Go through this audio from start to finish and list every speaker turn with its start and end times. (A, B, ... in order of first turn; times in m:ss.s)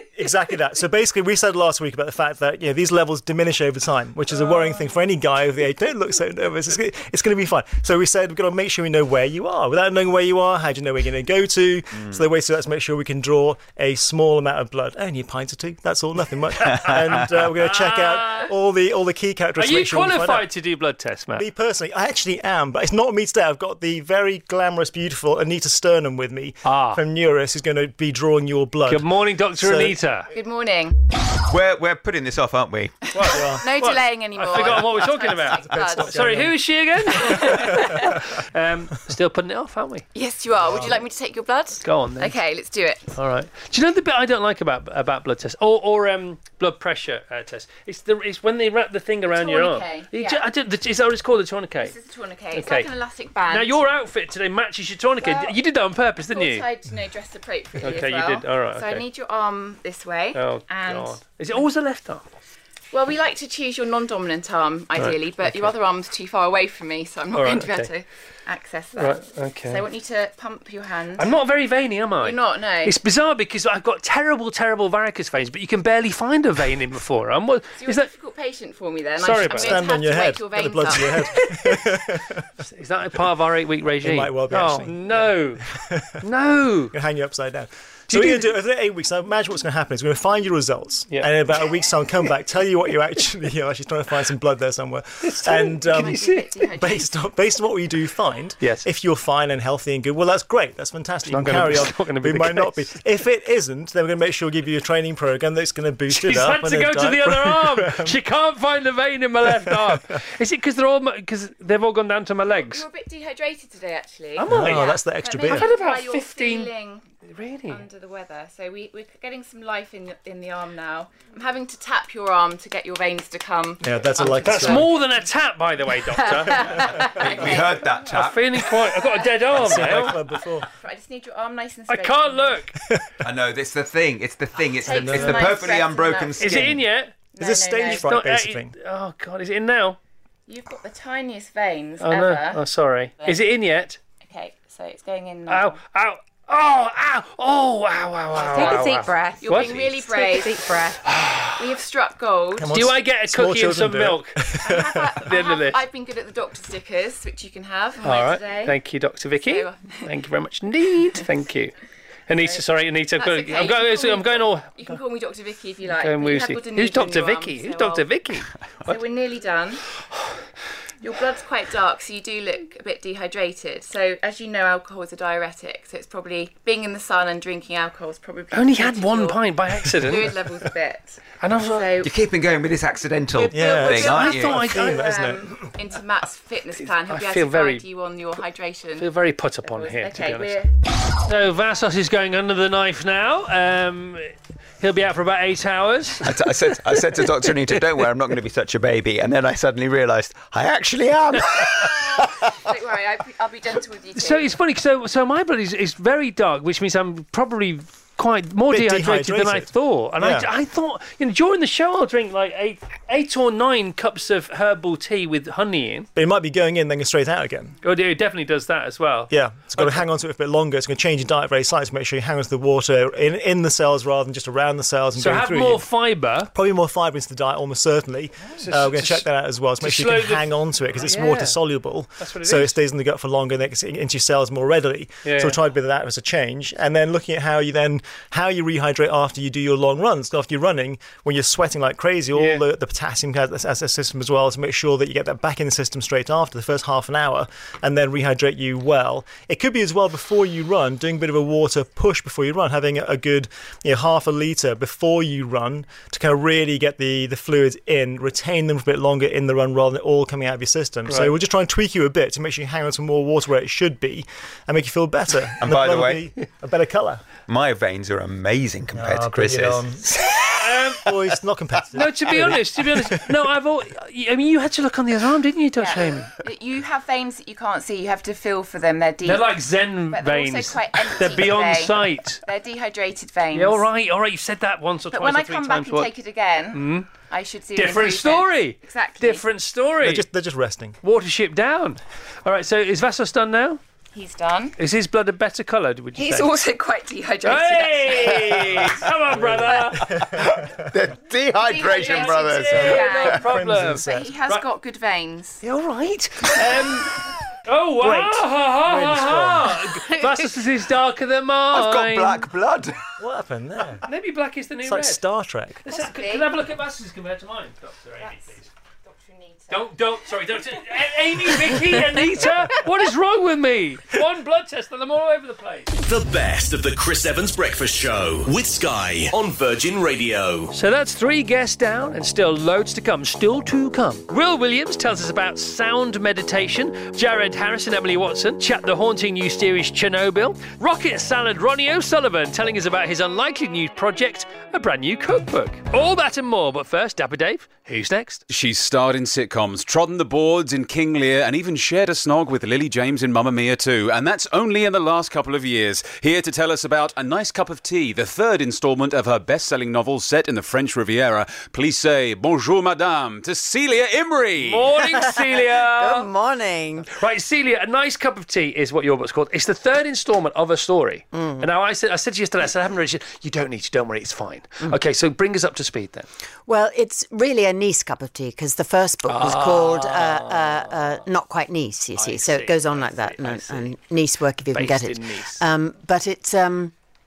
0:00.2-0:20.5 A
0:16.7-0:17.2 B
0:16.9-0:18.5 C
0:19.6-0:21.5 C
0:21.4-0:30.0 A
0:26.6-0:27.0 C
0:28.9-0:30.3 C
0:30.3-0:31.0 D
0:31.5-0:33.0 B
0:33.0-0:36.5 D
0:33.2-0:40.0 C
0:33.3-0:33.6 A
0:35.6-0:36.6 A
0:37.1-0:38.2 D
0:40.1-0:43.2 D
0:40.7-0:40.9 A
0:41.8-0:42.3 C
0:43.2-0:52.0 C
0:49.3-0:50.5 D
0:51.8-0:53.8 D
0:52.5-0:52.9 C
0:53.5-0:56.7 C
0:55.2-0:55.6 D
0:56.3-1:01.6 D
0:57.8-0:59.0 C
1:00.3-1:02.3 C
1:02.9-1:11.4 D
1:05.0-1:05.7 C
1:07.3-1:07.9 C
1:09.0-1:09.9 C
1:11.2-1:18.1 C
1:12.2-1:13.0 D
1:17.8-1:21.5 D
1:19.2-1:19.9 C
1:19.6-1:22.4 A
1:22.7-1:25.6 C
1:24.0-1:26.1 A
1:26.2-1:27.0 C
1:26.9-1:36.2 A
1:28.1-1:28.6 C
1:35.2-1:36.7 C
1:35.8-1:37.1 D
1:36.7-1:48.2 A
1:41.3-1:43.0 C
1:46.1-1:52.9 C
1:49.5-1:50.0 A
1:52.5-1:57.0 D
1:54.4-1:55.0 C
1:54.5-1:55.7 A
1:55.5-1:56.7 C
1:57.2-1:57.8 C
1:57.7-2:05.0 D
2:03.8-2:04.9 A
2:04.4-2:10.2 C
2:06.2-2:12.7 D
2:07.2-2:07.5 A
2:07.3-2:08.4 B
2:09.6-2:10.7 A
2:11.9-2:12.7 C
2:13.2-2:16.8 B
2:14.7-2:16.8 D
2:14.9-2:15.7 A
2:16.4-2:17.1 C
2:17.3-2:18.2 D
2:17.4-2:18.7 A
2:17.9-2:20.0 C
2:20.5-2:22.6 D
2:22.0-2:24.0 C
2:24.2-2:25.8 D
2:25.5-2:30.0 C
2:28.4-2:31.0 D
2:31.0-2:31.8 C
2:31.6-2:32.8 D
2:32.6-2:35.2 A
2:32.7-2:34.4 C
2:34.6-2:38.8 D
2:35.2-2:35.8 C
2:38.0-2:41.7 C
2:39.4-2:40.1 D
2:42.3-2:44.8 C
2:42.4-2:48.1 D
2:45.9-2:48.5 C
2:48.8-2:49.8 D
2:51.0-2:59.4 D
2:58.5-3:00.4 C
3:00.0-3:02.1 D
3:01.4-3:02.0 C
3:02.0-3:04.7 B
3:03.3-3:09.1 D
3:03.5-3:05.7 A
3:04.0-3:05.0 C
3:06.8-3:07.8 C
3:09.0-3:16.3 C
3:09.6-3:10.7 D
3:16.2-3:22.5 B
3:21.7-3:24.6 D
3:24.1-3:36.1 C
3:28.7-3:30.5 A
3:36.2-3:37.8 A
3:37.8-3:40.0 C
3:39.3-3:45.9 A
3:45.2-3:46.5 C
3:46.5-4:27.2 A
3:48.5-3:49.3 C
3:49.8-3:51.6 C
3:52.2-3:52.8 C
3:55.2-3:55.6 C
4:02.4-4:02.6 C
4:21.1-4:21.4 C
4:25.6-4:26.2 B
4:27.5-4:30.6 B
4:28.9-4:30.2 A
4:30.6-4:31.0 C
4:31.0-4:33.4 A
4:31.9-4:36.3 C
4:35.8-4:43.9 D
4:39.2-4:42.4 C
4:43.5-4:46.1 C
4:45.1-4:49.4 D
4:46.7-4:47.1 C
4:47.8-4:50.3 C
4:50.0-4:51.0 A
4:51.0-4:53.8 C
4:54.1-4:54.8 D
4:54.8-4:56.6 C
4:56.1-4:58.7 D
4:57.4-5:00.2 C
5:00.4-5:03.2 B
5:01.6-5:05.6 D
5:01.9-5:04.7 C
5:02.7-5:04.3 A
5:05.6-5:12.5 C
5:08.0-5:09.9 A
5:11.7-5:13.2 B
5:13.2-5:14.0 A
5:14.0-5:15.2 C
5:14.8-5:15.8 A
5:15.8-5:18.7 C
5:15.9-5:16.5 D
5:18.2-5:18.5 D
5:19.0-5:20.8 D
5:19.7-5:26.0 C
5:21.5-5:22.8 D
5:26.0-5:30.7 E
5:30.7-5:48.4 C
5:48.5-6:04.9 F
6:04.6-6:06.3 C
6:05.0-6:07.1 G
6:07.1-6:16.3 C
6:11.3-6:11.6 G
6:16.7-6:26.9 G
6:19.3-6:21.2 C
6:22.2-6:24.0 C
6:24.7-6:25.6 C